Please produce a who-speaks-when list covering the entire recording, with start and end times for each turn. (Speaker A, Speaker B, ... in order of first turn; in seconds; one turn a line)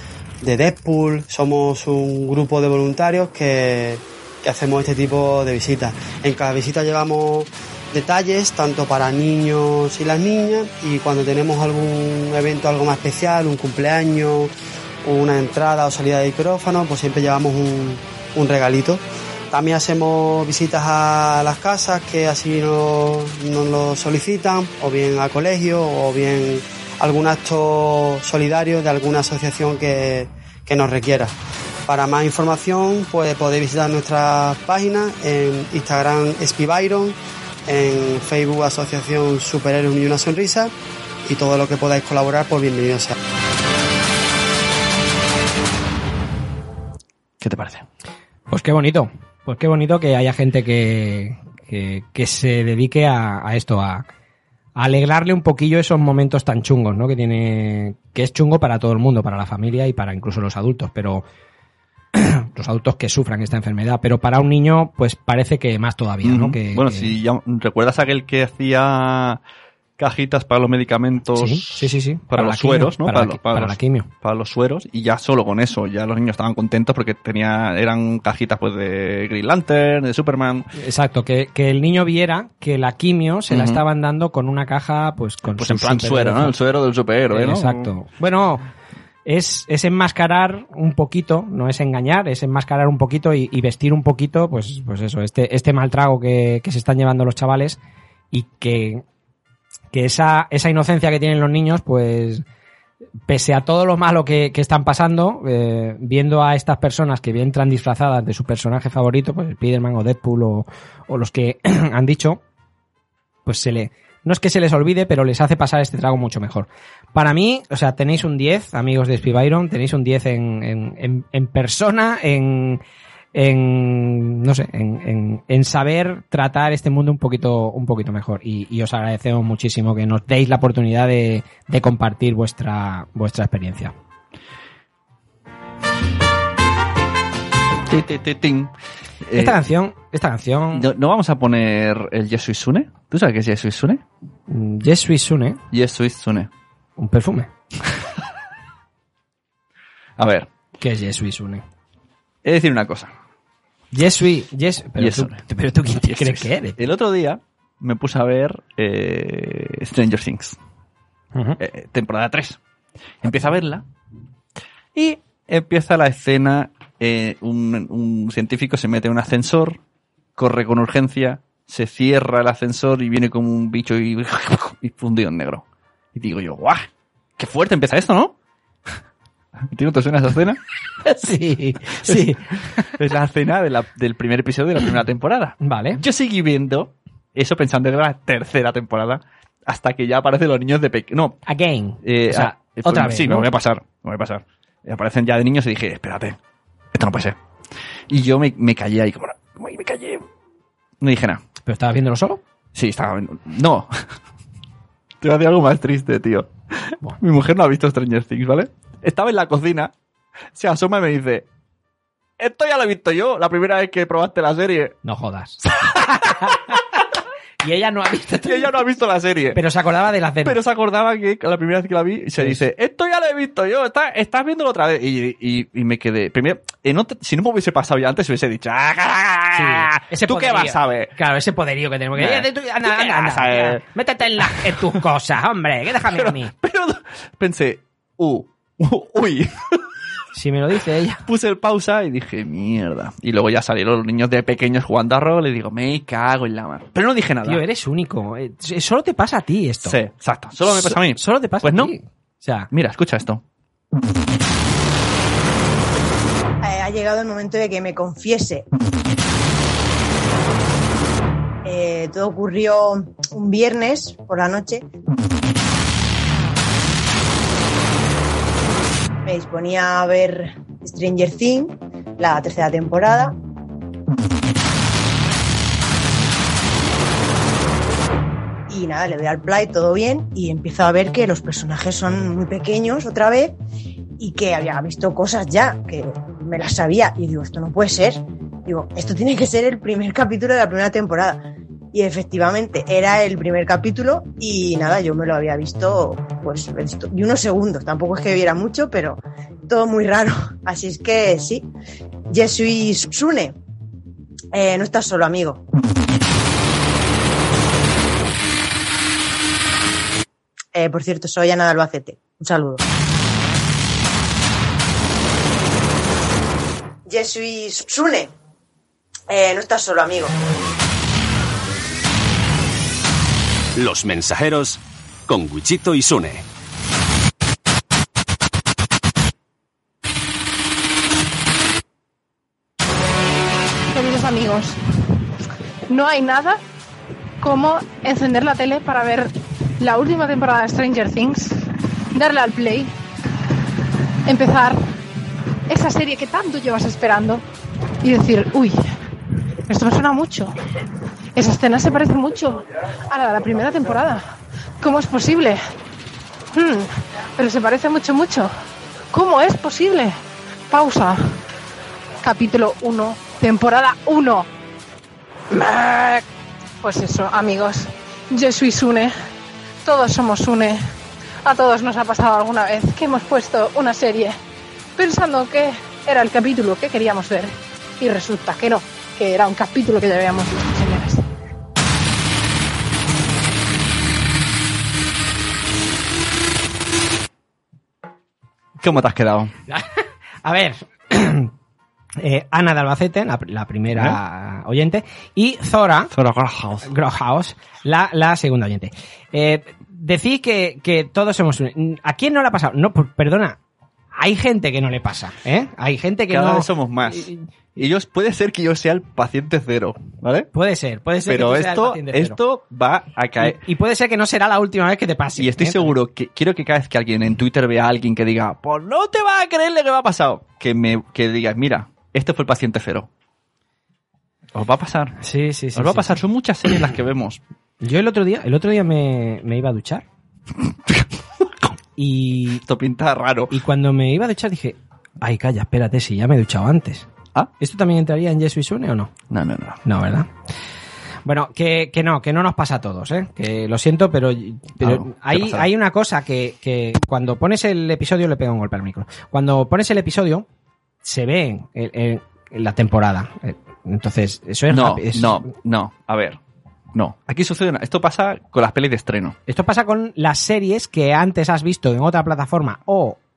Speaker A: 0.4-14.5
Speaker A: 15.0-31.4
Speaker A: 31.9-40.7
Speaker A: 41.3-43.1
Speaker B: 47.4-47.9
Speaker C: 48.5-54.0
Speaker C: 54.8-61.2
Speaker C: 62.1-67.1
Speaker B: 66.2-69.4
Speaker B: 70.0-80.7
Speaker C: 71.3-74.1
Speaker C: 80.8-86.5
Speaker B: 83.5-83.8
Speaker B: 85.5-87.9
Speaker C: 87.3-88.7
Speaker C: 89.2-97.8
Speaker C: 98.3-99.0
Speaker C: 99.9-102.4
Speaker C: 103.3-112.4
Speaker C: 113.5-122.8
Speaker C: 123.3-133.9
Speaker B: 137.9-138.7
Speaker B: 139.2-139.6
Speaker C: 139.3-140.9
Speaker B: 140.7-144.0
Speaker C: 144.5-145.6
Speaker B: 145.7-146.5
Speaker C: 147.0-147.5
Speaker B: 150.2-150.5
Speaker C: 150.8-151.6
Speaker B: 152.4-153.1
Speaker C: 153.9-156.8
Speaker B: 155.0-155.4
Speaker B: 155.9-160.6
Speaker C: 161.3-161.6
Speaker B: 161.6-162.6
Speaker B: 163.2-163.8
Speaker B: 164.9-169.8
Speaker B: 170.4-178.3
Speaker B: 179.6-180.6
Speaker C: 181.0-182.9
Speaker B: 182.0-191.4
Speaker C: 185.6-186.0
Speaker C: 191.5-193.5
Speaker B: 192.0-196.4
Speaker B: 196.9-197.4
Speaker B: 198.1-200.3
Speaker B: 201.0-201.4
Speaker C: 201.7-202.4
Speaker B: 202.7-203.9
Speaker B: 205.2-209.9
Speaker B: 210.6-211.5
Speaker B: 212.4-215.0
Speaker C: 215.0-217.0
Speaker C: 217.6-218.8
Speaker B: 218.4-219.6
Speaker C: 219.5-220.6
Speaker B: 220.4-231.1
Speaker C: 229.6-236.5
Speaker B: 232.2-233.8
Speaker B: 234.4-235.0
Speaker B: 236.1-239.8
Speaker C: 240.3-241.2
Speaker B: 241.3-247.6
Speaker C: 247.4-250.0
Speaker B: 249.8-251.9
Speaker C: 250.7-252.7
Speaker B: 252.7-253.4
Speaker D: 256.6-258.7
Speaker D: 261.6-264.9
Speaker D: 269.2-273.4
Speaker D: 278.7-283.6
Speaker D: 284.2-301.7
Speaker D: 302.3-303.6
Speaker D: 304.5-305.6
Speaker D: 310.7-312.8
Speaker D: 317.1-318.3
Speaker D: 319.3-320.4
Speaker E: 323.8-326.4
Speaker F: 333.9-334.8
Speaker F: 335.9-336.6
Speaker F: 337.4-341.6
Speaker F: 342.1-342.9
Speaker F: 344.3-344.8
Speaker F: 345.7-347.4
Speaker F: 348.0-348.8
Speaker F: 349.7-350.5
Speaker F: 351.4-354.2
Speaker F: 354.8-355.6
Speaker F: 356.5-358.5
Speaker F: 359.1-360.2
Speaker F: 360.7-361.3
Speaker F: 362.2-364.5
Speaker F: 365.5-366.2
Speaker F: 366.8-369.1
Speaker F: 369.9-370.8
Speaker F: 371.4-374.4
Speaker F: 375.0-381.2
Speaker B: 388.8-389.5
Speaker C: 389.7-391.5
Speaker C: 392.2-396.1
Speaker B: 393.9-394.2
Speaker B: 396.1-396.9
Speaker C: 396.8-403.6
Speaker C: 404.2-407.4
Speaker B: 406.3-410.5
Speaker C: 410.5-412.4
Speaker B: 411.3-413.6
Speaker C: 413.4-415.9
Speaker B: 415.4-423.1
Speaker B: 424.5-425.2
Speaker C: 425.2-426.2
Speaker B: 425.8-427.4
Speaker C: 427.8-430.1
Speaker C: 432.0-432.6
Speaker B: 432.6-433.6
Speaker C: 433.5-437.1
Speaker C: 437.6-439.1
Speaker B: 439.3-439.8
Speaker C: 439.9-440.3
Speaker C: 441.2-450.4
Speaker B: 444.8-445.7
Speaker C: 451.0-455.5
Speaker B: 454.7-456.4
Speaker B: 456.9-459.4
Speaker C: 459.5-463.2